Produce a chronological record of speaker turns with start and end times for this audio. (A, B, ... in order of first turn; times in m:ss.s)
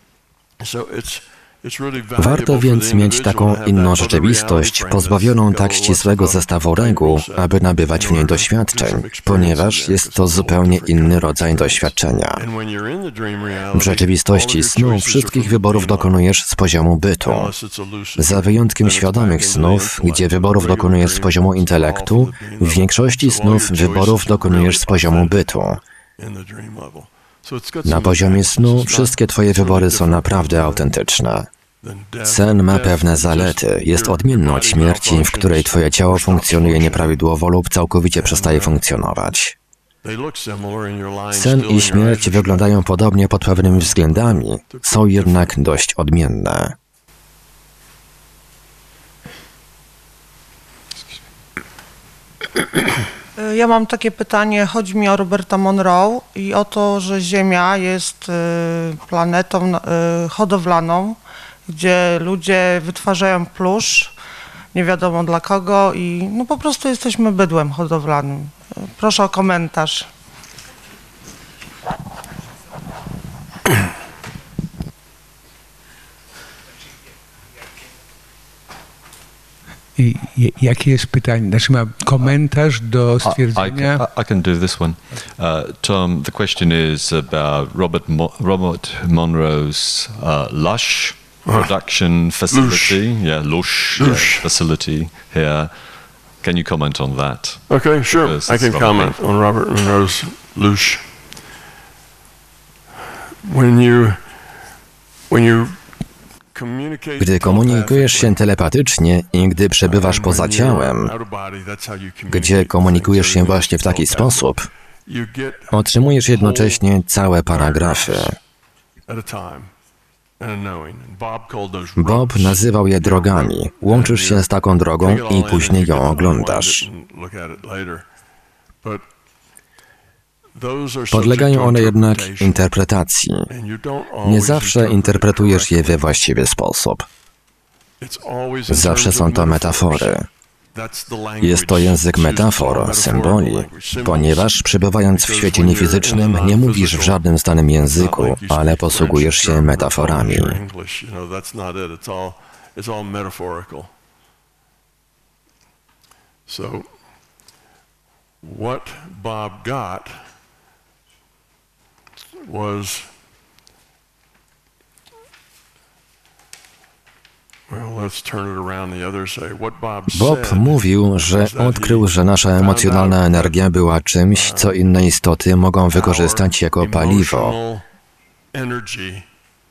0:00.6-0:16.2 A
0:02.2-0:12.4 B
0:13.7-0:17.5 B
0:17.2-0:25.5 A
0:18.2-0:25.8 B
0:26.2-0:30.9 A
0:27.8-0:31.5 B
0:31.8-0:37.2 A
0:32.2-0:39.6 B
0:38.2-0:38.8 A
0:40.0-0:42.7 A
0:41.3-0:46.8 B
0:43.6-0:45.6 A
0:53.4-1:04.2 C
1:04.7-1:10.1 C
1:20.0-1:24.0 D
1:23.2-1:39.2 E
1:31.4-1:31.7 A
1:32.5-1:33.0 A
1:34.0-1:34.5 A
1:37.7-1:41.1 A
1:43.4-1:44.2 A
1:45.3-1:45.8 A
1:46.5-1:48.4 A
1:47.2-1:51.1 B
1:49.8-1:55.8 A
1:52.3-1:54.7 B
1:55.7-1:58.4 B
1:56.3-1:56.8 A
1:57.5-1:58.4 A
1:59.1-1:59.7 A
2:00.4-2:04.5 A
2:02.0-2:06.9 B
2:05.0-2:08.1 A
2:10.6-2:12.7 A
2:11.1-2:13.5 B
2:13.5-2:16.0 A
2:14.2-2:17.1 B
2:18.0-2:20.2 A
2:18.7-2:20.3 B
2:20.7-2:24.5 A
2:21.4-2:30.6 B
2:25.1-2:27.2 A
2:27.9-2:33.9 A
2:36.5-2:36.9 A
2:38.4-2:40.3 A
2:42.4-2:43.1 A
2:47.7-2:53.6 A
2:50.1-2:57.6 B
2:54.3-2:54.8 A
2:55.9-2:57.8 A
2:58.5-2:59.3 A